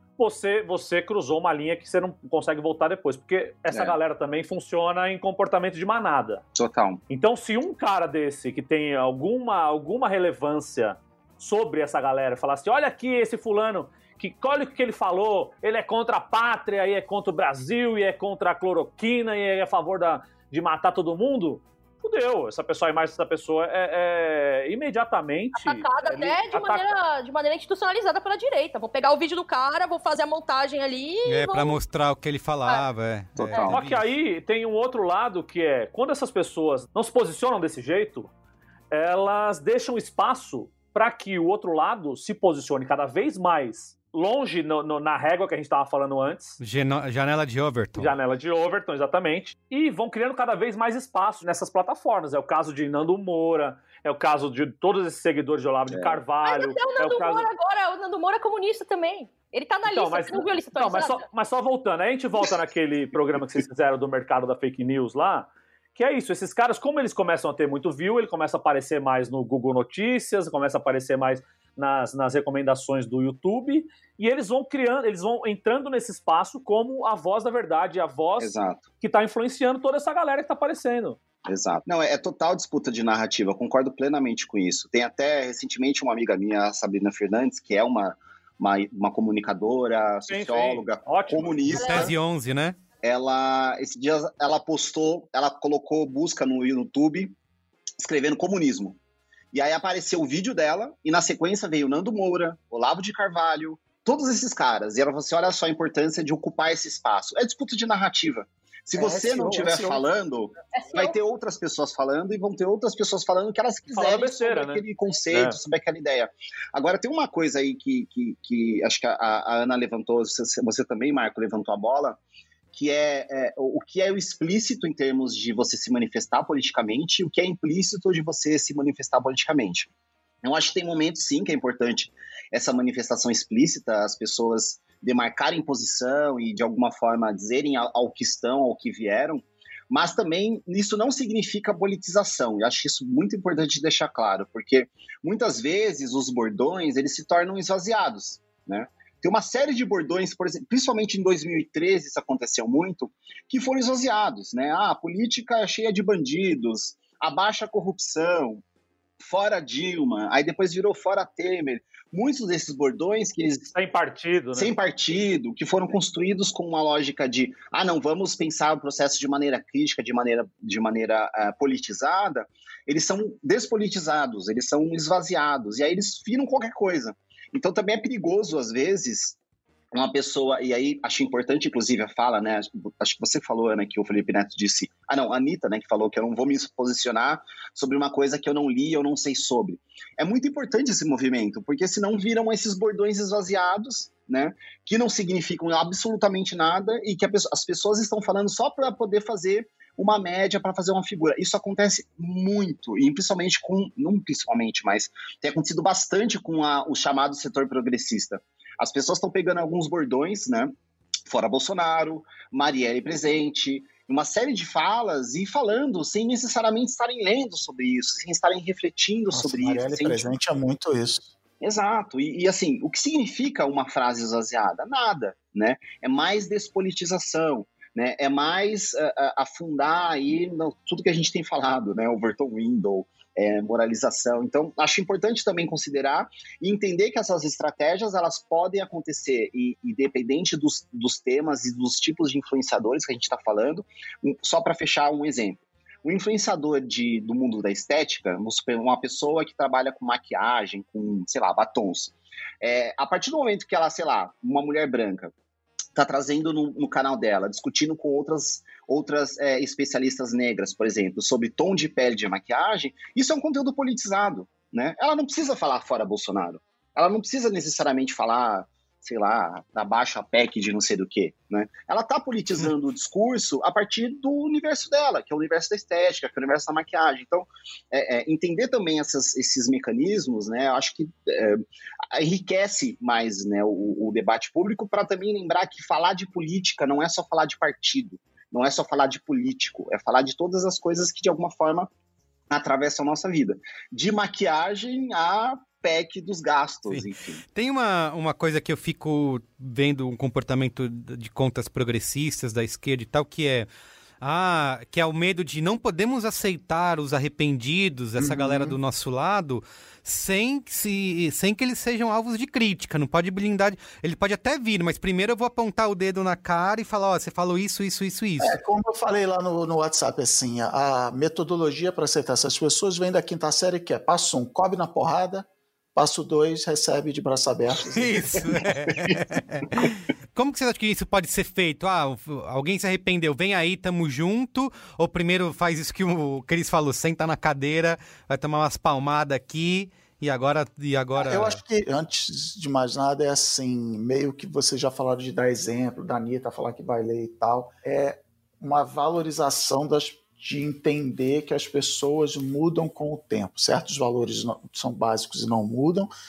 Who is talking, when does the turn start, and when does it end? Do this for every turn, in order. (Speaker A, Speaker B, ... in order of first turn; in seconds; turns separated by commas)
Speaker A: 0.2-6.4, Speaker B: 3.7-4.0, Speaker B: 6.5-7.0, Speaker A: 7.1-26.8, Speaker C: 25.5-31.8, Speaker D: 31.2-34.0, Speaker B: 33.4-33.8, Speaker A: 33.6-38.3, Speaker A: 38.9-46.6, Speaker D: 46.6-48.1, Speaker A: 48.0-57.5, Speaker B: 55.9-56.2, Speaker C: 56.4-61.2, Speaker A: 59.8-81.2, Speaker B: 78.4-78.8, Speaker B: 81.5-92.2, Speaker A: 90.3-91.8, Speaker C: 91.7-92.1, Speaker D: 91.7-92.8, Speaker B: 93.0-97.3, Speaker B: 98.0-99.0, Speaker B: 99.5-122.2, Speaker E: 108.9-110.0, Speaker C: 110.7-111.2, Speaker A: 113.9-115.6, Speaker B: 122.7-129.9, Speaker B: 130.4-158.6, Speaker B: 159.2-163.7, Speaker A: 163.7-164.7, Speaker B: 164.5-179.3, Speaker B: 179.9-210.7, Speaker B: 211.3-220.3, Speaker E: 219.3-221.3, Speaker B: 221.6-255.3, Speaker B: 255.9-281.6, Speaker B: 282.1-291.9, Speaker B: 292.5-297.4, Speaker D: 296.9-303.7, Speaker D: 304.2-318.6, Speaker E: 308.2-308.8, Speaker E: 318.4-328.4, Speaker D: 327.9-341.6, Speaker E: 341.1-356.1